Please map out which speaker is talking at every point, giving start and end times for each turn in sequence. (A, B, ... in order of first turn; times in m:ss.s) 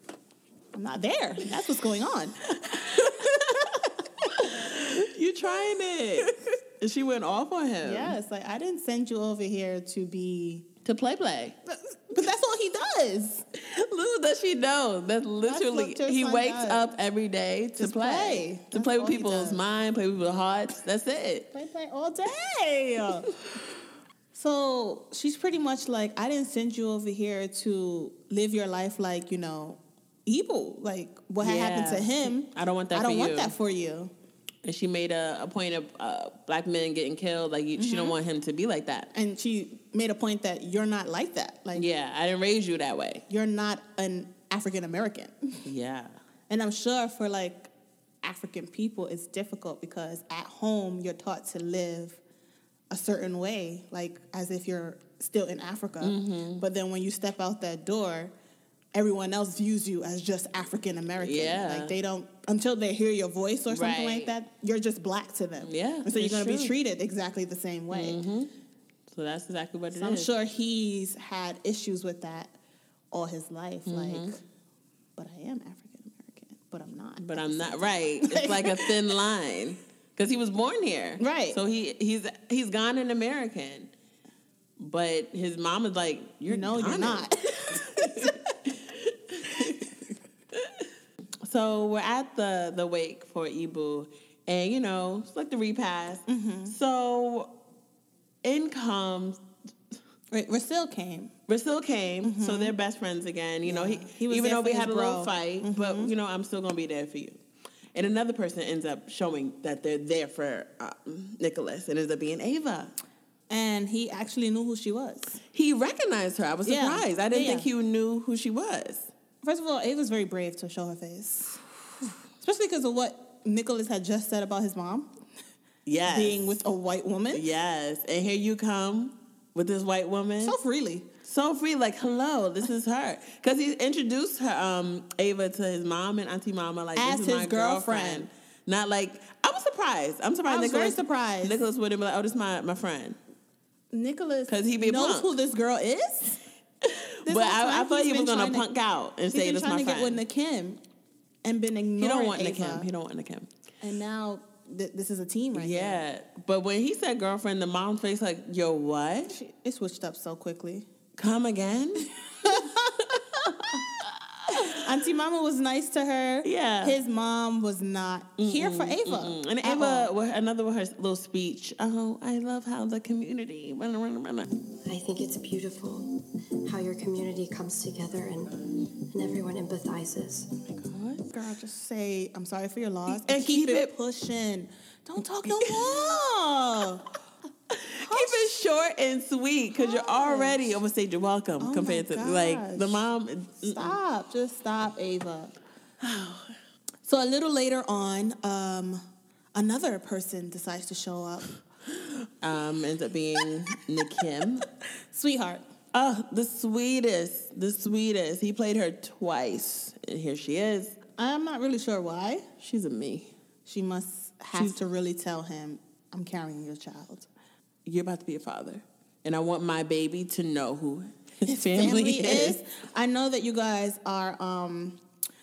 0:00.7-0:04.5 A
0:03.0-0:03.5 B
0:04.4-0:08.1 B
0:07.8-0:10.6 A
0:10.8-0:11.5 B
0:11.7-0:13.4 A
0:13.5-0:21.5 B
0:15.4-0:16.8 A
0:17.8-0:19.6 A
0:21.5-0:23.3 A
0:24.3-0:34.1 A
0:31.4-0:33.5 B
0:34.6-0:39.1 B
0:37.8-0:38.1 A
0:39.1-0:41.8 A
0:41.7-0:43.2 B
0:43.3-0:45.6 A
0:45.6-0:46.2 B
0:46.5-0:47.7 A
0:48.2-0:52.2 A
0:52.9-0:58.3 A
0:56.0-0:56.6 B
0:58.9-1:08.2 A
1:01.2-1:01.9 B
1:03.7-1:04.3 B
1:05.6-1:06.7 B
1:07.9-1:08.5 B
1:09.1-1:10.3 B
1:09.9-1:12.5 A
1:13.1-1:14.4 A
1:13.8-1:14.3 B
1:15.2-1:19.2 A
1:17.2-1:23.9 B
1:21.2-1:21.6 A
1:24.8-1:29.9 B
1:26.5-1:28.3 A
1:29.5-1:29.7 A
1:31.4-1:37.5 B
1:36.3-1:36.7 A
1:38.4-1:39.4 B
1:40.3-1:41.3 A
1:41.5-1:47.4 B
1:42.2-1:42.7 A
1:43.6-1:46.1 A
1:47.9-1:52.9 B
1:53.5-1:55.4 A
1:55.5-1:59.1 B
1:56.6-1:57.7 A
1:59.4-2:01.6 A
2:02.4-2:05.1 A
2:05.8-2:06.5 B
2:06.0-2:07.4 A
2:07.3-2:10.6 B
2:10.4-2:11.0 A
2:11.2-2:23.2 B
2:17.0-2:18.3 A
2:20.4-2:21.6 A
2:23.9-2:26.4 A
2:24.5-2:25.3 B
2:26.8-2:30.2 B
2:27.2-2:28.6 A
2:29.3-2:30.8 A
2:31.4-2:32.9 A
2:32.0-2:33.5 B
2:33.8-2:36.0 A
2:35.5-2:39.3 B
2:39.3-2:40.9 A
2:41.2-2:42.1 B
2:42.4-2:43.0 A
2:44.0-2:44.8 B
2:44.6-2:50.1 A
2:46.4-2:47.0 B
2:48.4-2:54.5 B
2:54.8-3:00.6 C
3:00.7-3:01.2 B
3:01.3-3:07.0 A
3:03.1-3:03.9 B
3:05.5-3:06.1 B
3:07.7-3:14.0 B
3:08.0-3:08.6 A
3:09.7-3:10.8 A
3:11.6-3:13.0 A
3:13.6-3:15.5 A
3:16.0-3:16.5 B
3:17.0-3:19.0 A
3:19.5-3:21.5 A
3:22.4-3:24.6 B
3:25.1-3:25.6 A
3:25.9-3:31.0 B
3:31.2-3:32.4 A
3:32.6-3:33.3 B
3:33.6-3:37.3 A
3:37.8-3:42.6 B
3:41.4-3:45.0 A